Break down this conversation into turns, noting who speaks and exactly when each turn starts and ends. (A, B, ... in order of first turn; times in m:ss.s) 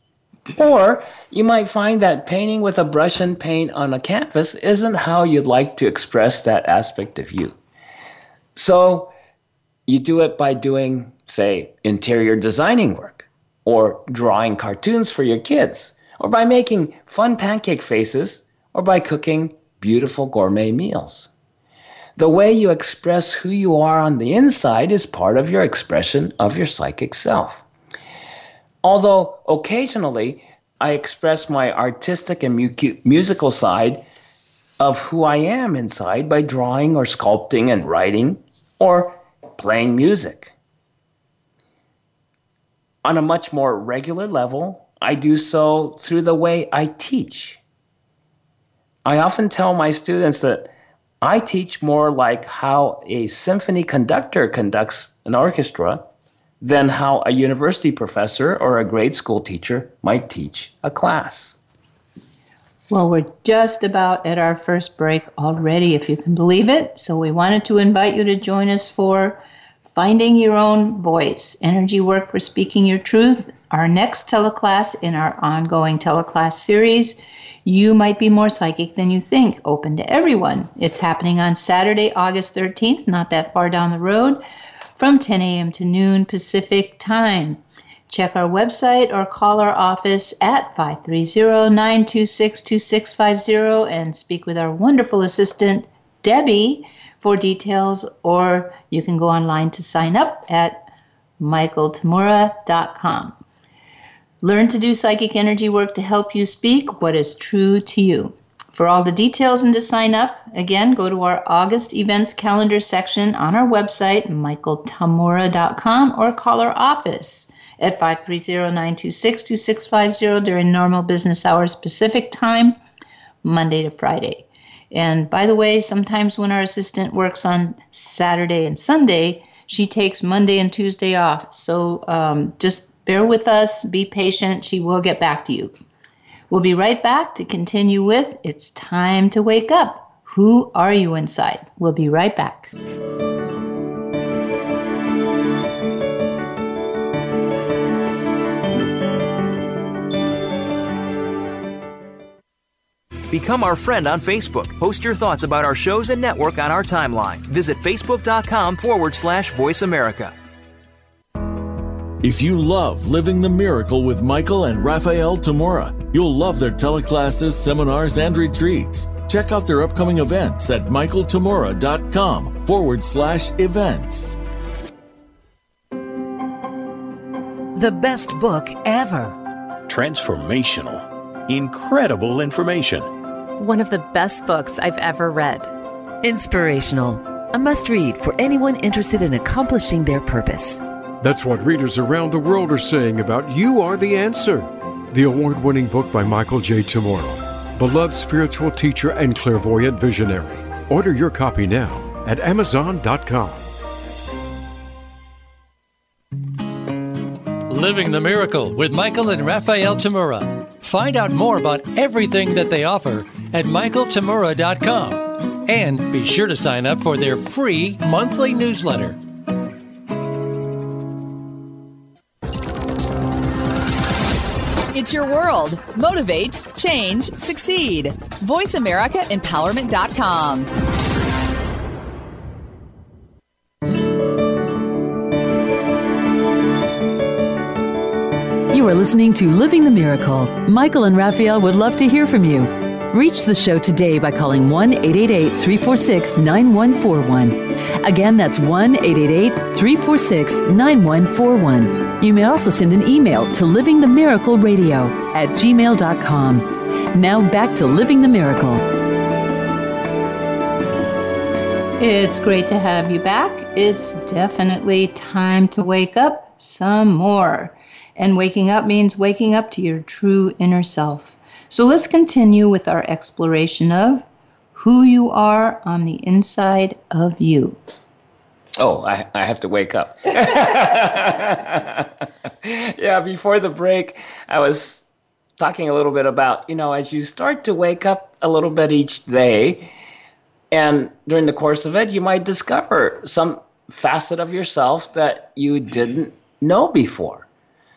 0:00.6-0:07.6 A
0:08.5-0:09.1 A
0:09.9-0:21.3 A
0:22.2-0:27.6 A
0:28.8-0:34.0 A
0:34.8-0:40.5 A
0:43.0-0:47.6 A
0:49.0-0:50.7 A
0:51.2-0:56.0 A
0:56.6-1:01.6 A
1:02.9-1:09.4 B
1:09.9-1:24.4 B
1:25.0-1:40.9 B
1:41.4-1:43.4 B
1:44.4-2:02.8 B
2:03.4-2:15.7 B
2:16.5-2:22.7 B
2:33.3-2:40.4 C
2:42.2-2:54.4 D
2:57.7-2:59.4 E
2:59.9-3:03.1 F
3:03.6-3:05.7 G
3:06.2-3:10.8 E
3:11.2-3:23.7 H
3:27.7-3:39.2 I
3:44.9-3:50.7 J
3:58.7-4:18.8 E
4:22.0-4:37.8 B
4:38.8-4:45.0 A
4:45.6-4:49.9 A
4:50.7-4:57.5 A